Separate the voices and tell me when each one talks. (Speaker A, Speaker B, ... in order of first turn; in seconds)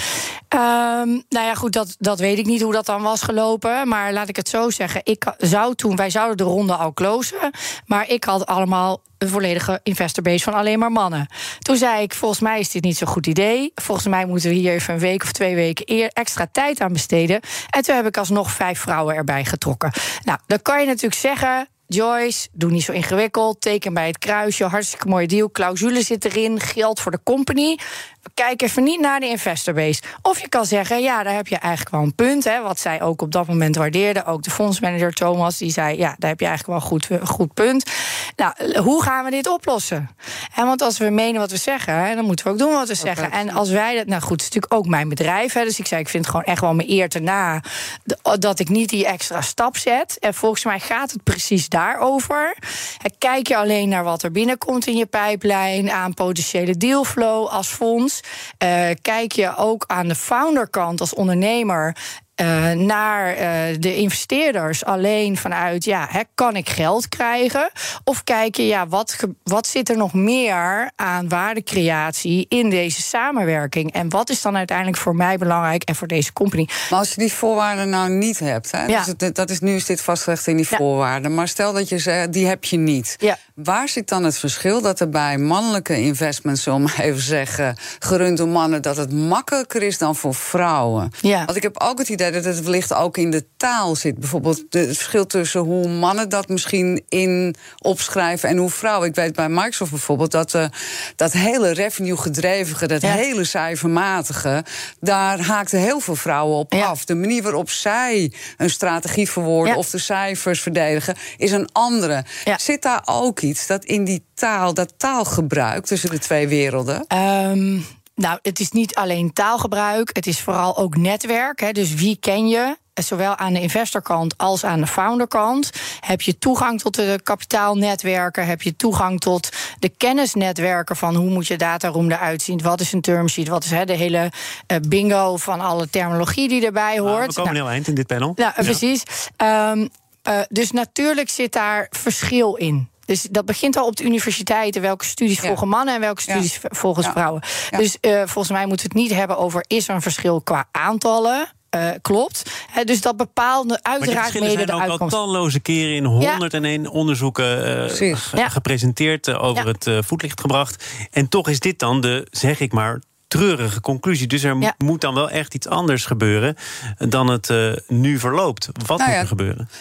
Speaker A: 0.5-27.8, 28.3-76.7, 91.2-91.5, 117.1-137.6, 138.4-155.2
Speaker B: 43.0-43.6, 76.9-117.0, 157.9-158.2, 169.0-169.3
Speaker C: 137.0-138.8, 154.0-169.7